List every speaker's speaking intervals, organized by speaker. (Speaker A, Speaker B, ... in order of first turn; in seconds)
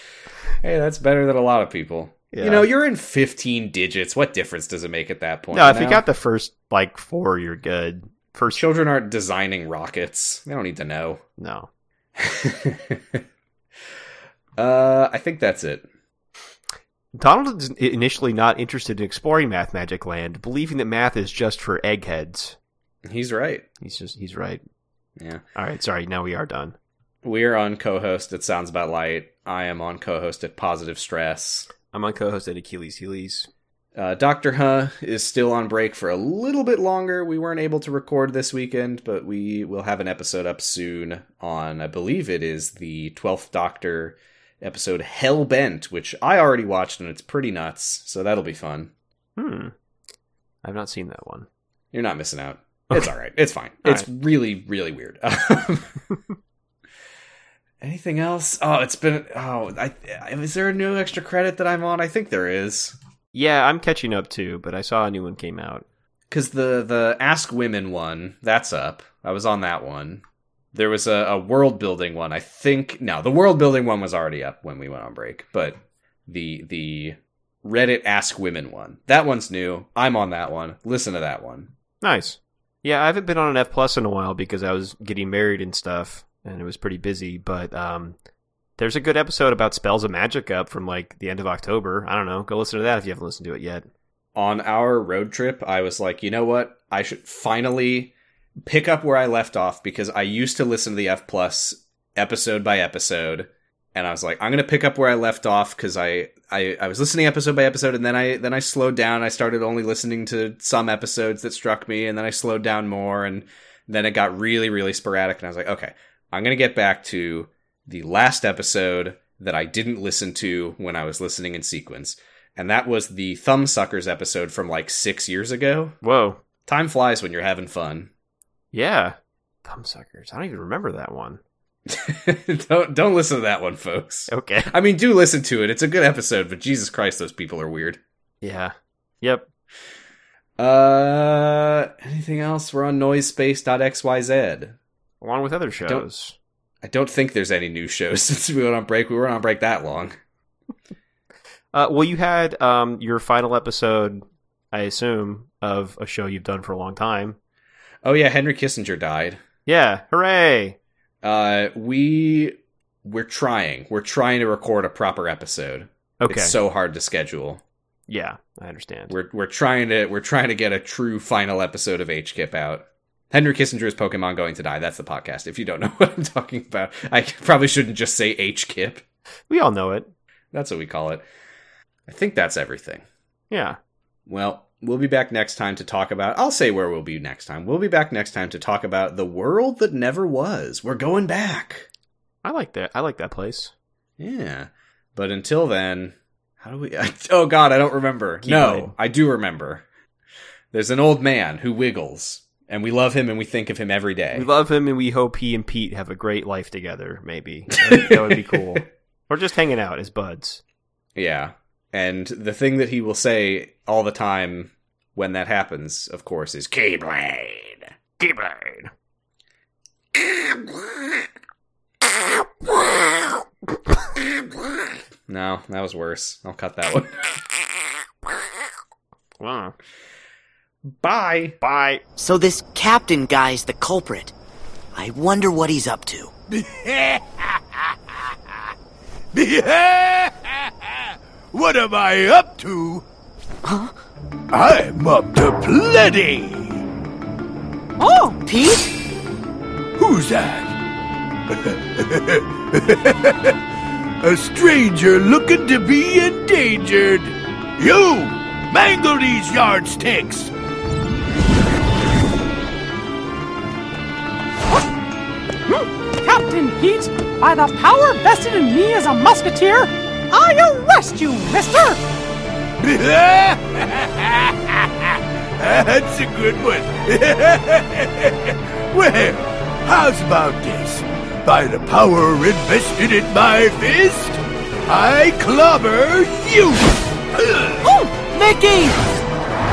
Speaker A: 0.6-6.0, 8.6-11.2, 12.2-13.2, 14.6-15.9, 23.1-23.7, 25.2-25.4, 27.2-31.7, 34.0-48.9, 51.9-56.0, 57.8-63.0, 66.3-70.2, 70.7-81.7, 94.3-98.1, 98.6-126.0, 126.7-128.1, 131.9-138.0, 140.6-144.8, 145.8-146.1, 146.8-150.1, 158.0-159.4, 161.2-167.6, 169.1-179.0, 180.5-181.2, 182.1-183.0, 184.3-191.9, 194.2-199.8, 200.7-204.5, 207.8-208.8, 211.2-217.9, 225.3-227.5, 231.0-231.6
Speaker B: 2.3-2.7, 5.5-8.6, 11.4-11.7, 17.1-22.6, 23.8-24.6, 25.6-26.8, 31.9-33.5, 49.4-49.7, 50.6-51.5, 63.3-65.8, 82.0-88.2, 88.8-93.9, 126.0-126.4, 128.7-131.4, 134.3-134.7, 138.4-139.5, 145.2-146.3, 151.7-157.4, 159.7-160.8, 166.2-166.6, 168.1-169.2, 179.5-180.1, 183.5-183.8, 192.4-193.7, 198.4-198.9, 204.3-210.6, 218.2-218.9, 229.4-229.7, 231.6-232.0
Speaker C: 232.2-234.3, 234.9-236.3, 243.6-243.9, 248.4-248.9
Speaker D: 236.5-237.8, 239.3-243.1, 244.5-246.8, 250.0-250.8, 251.5-253.6, 254.2-260.5, 272.8-287.9
Speaker E: 248.0-248.4, 265.7-272.0, 287.8-289.0